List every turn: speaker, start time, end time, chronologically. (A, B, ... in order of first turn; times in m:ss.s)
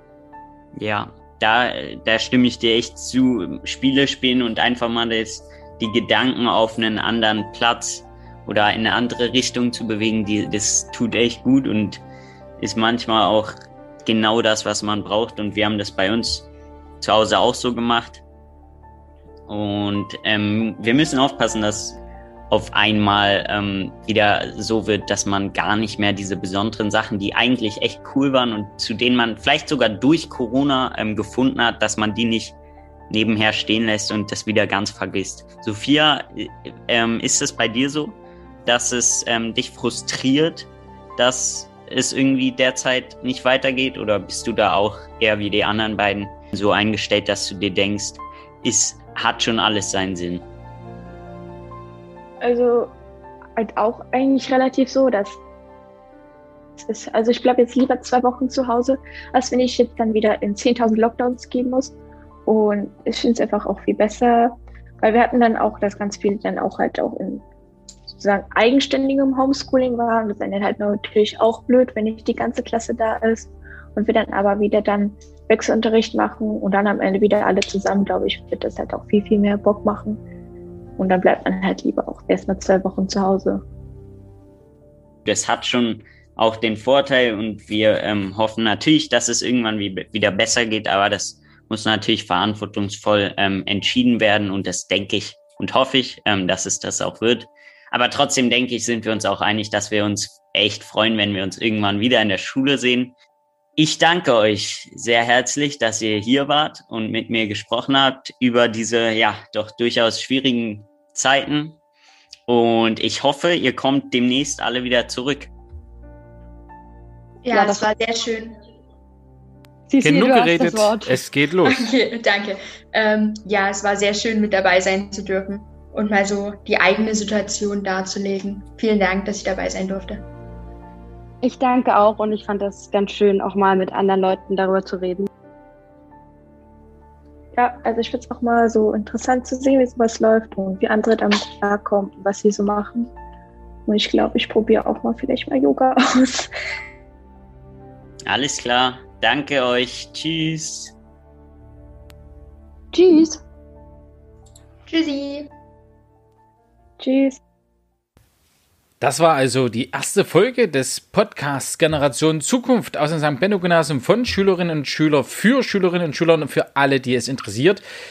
0:00.8-0:12.0 A
0:12.6-0:16.5 A
0:17.0-0:18.2 A
0:19.5-0:32.6 A
0:33.1-0:50.4 A
0:52.4-0:52.9 B
0:53.6-0:55.4 B
0:56.8-1:07.4 B
1:08.1-1:20.2 B
1:21.0-1:23.6 B
1:25.2-1:43.2 A
1:43.8-1:51.8 A
1:52.5-1:55.5 A
1:57.4-1:58.6 C
1:57.5-1:57.9 D
1:59.9-2:01.2 D
2:00.0-2:01.9 E
2:01.6-2:10.3 C
2:11.4-2:15.3 D
2:17.5-2:23.1 B
2:23.9-2:26.5 B
2:28.3-2:31.0 A
2:32.9-2:33.4 D
2:34.9-2:35.5 C
2:37.0-2:37.4 B
2:39.0-2:47.8 E